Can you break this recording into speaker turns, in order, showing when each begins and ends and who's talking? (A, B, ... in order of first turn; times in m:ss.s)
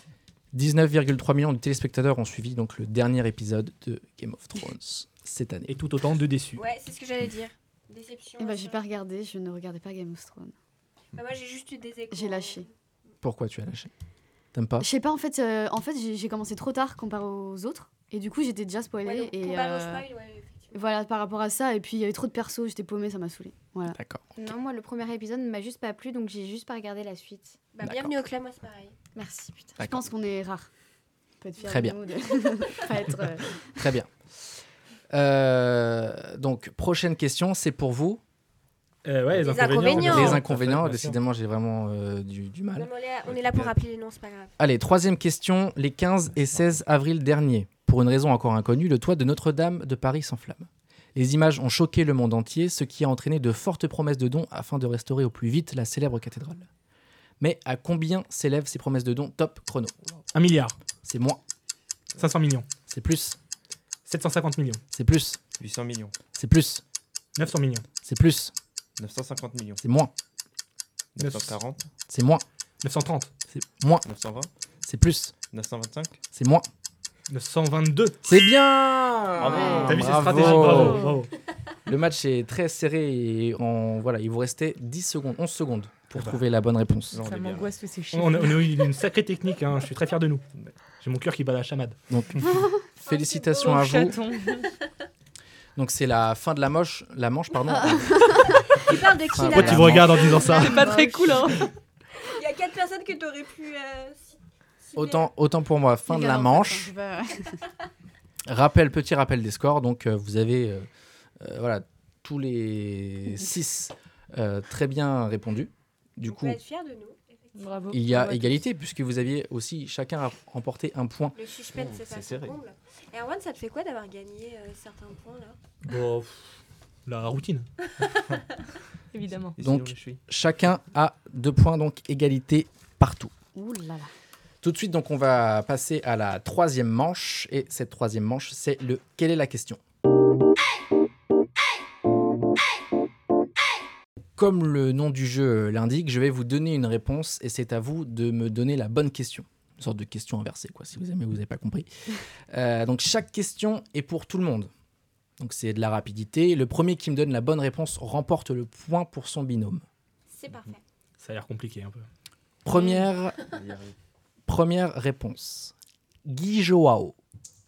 0:00.5-0:05.7 A
0:05.7-0:06.6 B
0:06.6-0:08.8 C
0:08.4-0:10.5 D
0:11.1-0:12.7 C
0:12.1-0:12.6 D
0:13.2-0:13.9 A
0:14.5-0:14.9 A
0:14.8-0:20.0 D
0:19.0-0:20.8 C
0:20.7-0:24.0 D
0:23.9-0:24.2 A
0:24.4-0:27.6 E
0:27.7-0:29.0 C
0:27.8-0:28.1 A
0:29.2-0:30.7 D
0:29.8-0:30.1 A
0:31.4-0:33.7 D
0:31.6-0:32.0 A
0:33.8-0:34.1 A
0:35.1-0:38.2 A
0:39.0-0:41.2 B
0:39.4-0:40.4 C
0:39.9-0:43.7 A
0:42.8-0:44.5 C
0:44.6-0:56.7 A
0:57.4-1:00.0 A
1:00.3-1:00.8 B
1:01.0-1:01.4 A
1:02.2-1:02.6 B
1:02.9-1:03.4 A
1:04.1-1:04.8 B
1:04.9-1:05.4 A
1:05.6-1:06.1 F
1:06.4-1:06.8 A
1:07.4-1:07.8 B
1:08.0-1:08.5 A
1:09.0-1:09.8 F
1:09.8-1:10.1 A
1:11.1-1:11.8 F
1:11.2-1:11.6 B
1:12.1-1:12.4 A
1:12.8-1:13.3 B
1:13.5-1:14.1 A
1:14.0-1:14.5 F
1:14.8-1:15.3 A
1:15.5-1:16.2 F
1:16.3-1:16.7 A
1:17.3-1:18.2 B
1:18.2-1:21.1 A
1:19.4-1:20.8 F
1:19.8-1:21.3 B
1:20.7-1:21.2 G
1:21.9-1:27.2 A
1:27.1-1:27.8 F
1:27.1-1:28.9 G
1:28.1-1:30.4 B
1:30.5-1:30.8 F
1:31.0-1:32.0 B
1:32.1-1:34.2 A
1:33.0-1:34.2 C
1:33.6-1:34.7 G
1:35.8-1:38.4 A
1:37.7-1:38.6 D
1:38.8-1:40.6 C
1:39.3-1:40.2 A
1:39.4-1:40.9 B
1:40.4-1:41.7 G
1:40.7-1:41.5 D
1:42.2-1:45.3 C
1:45.0-1:46.9 A
1:46.1-1:47.6 D
1:48.5-1:50.9 A
1:51.4-1:56.6 A
1:56.2-1:58.0 C
1:57.6-1:58.6 G
1:57.9-2:01.4 A
2:01.4-2:05.6 C
2:01.7-2:02.6 F
2:05.9-2:06.5 B
2:07.1-2:07.6 B
2:09.1-2:09.6 G
2:09.6-2:10.2 F
2:09.6-2:13.3 A
2:13.5-2:14.1 D
2:14.6-2:19.8 A
2:24.4-2:31.9 A
2:32.5-2:34.7 A
2:35.4-2:39.8 A
2:40.3-2:40.8 C
2:41.2-2:42.1 B
2:42.6-2:43.4 A
2:42.7-2:43.0 C
2:43.5-2:43.9 F
2:44.5-2:45.7 A
2:46.2-2:47.2 A